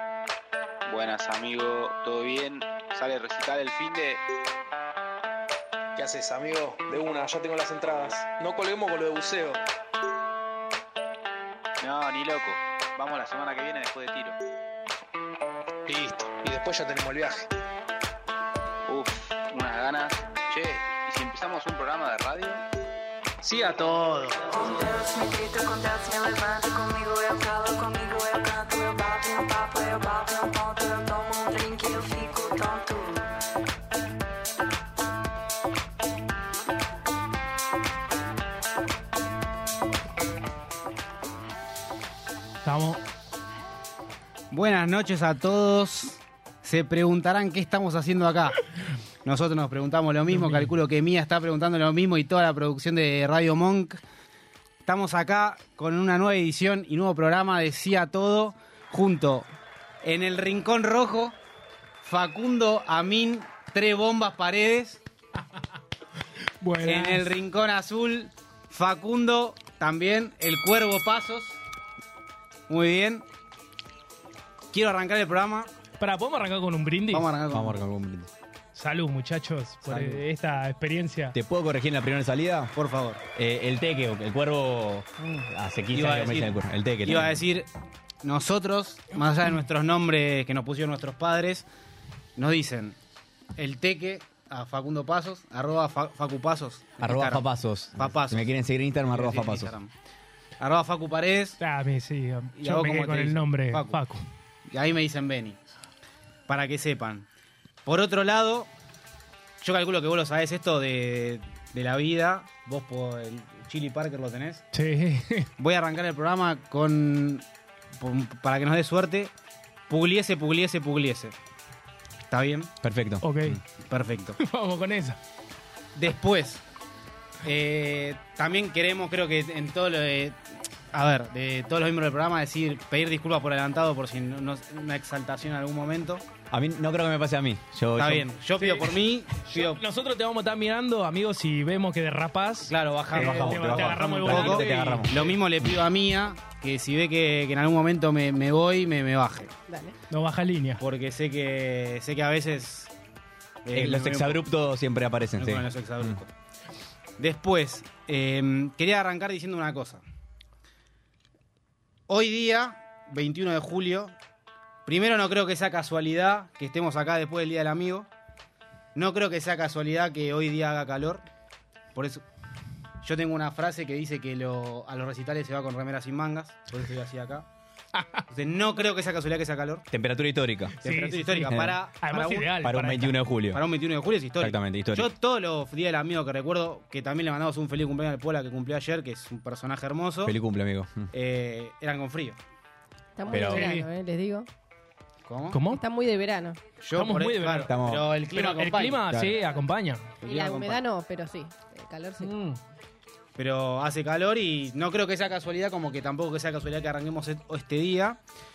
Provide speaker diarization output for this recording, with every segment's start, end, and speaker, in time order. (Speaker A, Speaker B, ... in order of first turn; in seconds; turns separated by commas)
Speaker A: 0.9-4.2, Speaker B: 6.0-9.6, Speaker A: 11.8-14.4, Speaker B: 15.9-17.5, Speaker A: 18.9-22.6, Speaker B: 23.4-24.4, Speaker C: 24.5-33.3, Speaker D: 42.6-43.0, Speaker E: 44.5-48.6, Speaker E: 49.2-54.0, Speaker D: 50.3-50.7, Speaker E: 54.9-59.5, Speaker E: 60.0-61.4, Speaker E: 62.0-65.0, Speaker D: 66.6-67.2, Speaker E: 66.8-71.6, Speaker E: 72.7-73.2, Speaker E: 74.7-75.7, Speaker D: 76.0-77.3, Speaker E: 77.1-77.8, Speaker F: 77.5-78.3, Speaker D: 78.7-81.3, Speaker E: 79.8-80.2, Speaker F: 81.3-82.7, Speaker E: 82.7-83.2, Speaker F: 83.3-87.4, Speaker E: 85.9-87.7, Speaker E: 88.2-91.6, Speaker E: 92.4-93.0, Speaker E: 93.6-99.9, Speaker F: 97.0-99.7, Speaker E: 100.6-101.6, Speaker D: 101.6-104.2, Speaker E: 102.5-104.0, Speaker E: 104.7-105.6, Speaker E: 106.5-107.2, Speaker E: 107.8-108.7, Speaker E: 109.6-114.6, Speaker D: 114.7-115.5, Speaker E: 115.6-117.4, Speaker E: 118.0-119.3, Speaker E: 119.9-121.3, Speaker E: 122.3-122.7, Speaker F: 122.8-123.6, Speaker D: 123.2-123.6, Speaker E: 123.9-124.4, Speaker D: 124.4-125.2, Speaker E: 126.0-126.6, Speaker E: 127.4-130.4, Speaker E: 130.9-136.2, Speaker F: 136.5-138.3, Speaker E: 137.9-139.8, Speaker D: 138.6-145.3, Speaker E: 142.7-149.5, Speaker F: 143.1-145.3, Speaker G: 149.7-149.9, Speaker D: 150.1-150.8, Speaker E: 150.8-152.9, Speaker E: 153.6-154.4, Speaker F: 153.7-156.1, Speaker E: 155.4-156.3, Speaker E: 157.2-160.0, Speaker E: 162.1-164.1, Speaker E: 164.8-168.1, Speaker E: 168.9-171.2, Speaker E: 171.9-172.2, Speaker E: 173.0-177.4, Speaker E: 178.3-179.8, Speaker F: 179.9-180.8, Speaker E: 180.8-182.6, Speaker D: 180.8-183.2, Speaker F: 181.5-181.8, Speaker F: 182.6-183.6, Speaker E: 183.5-190.3, Speaker F: 184.4-185.1, Speaker F: 190.2-191.1, Speaker E: 191.1-192.4, Speaker G: 193.2-194.5, Speaker F: 193.3-193.7, Speaker D: 193.3-193.9, Speaker E: 195.3-195.6, Speaker D: 195.5-195.8, Speaker G: 195.7-196.6, Speaker E: 196.8-199.0, Speaker D: 196.9-197.8, Speaker F: 197.7-198.1, Speaker D: 198.3-200.1, Speaker F: 199.1-199.4, Speaker E: 200.2-200.8, Speaker G: 200.2-202.4, Speaker D: 202.2-202.6, Speaker E: 203.4-208.2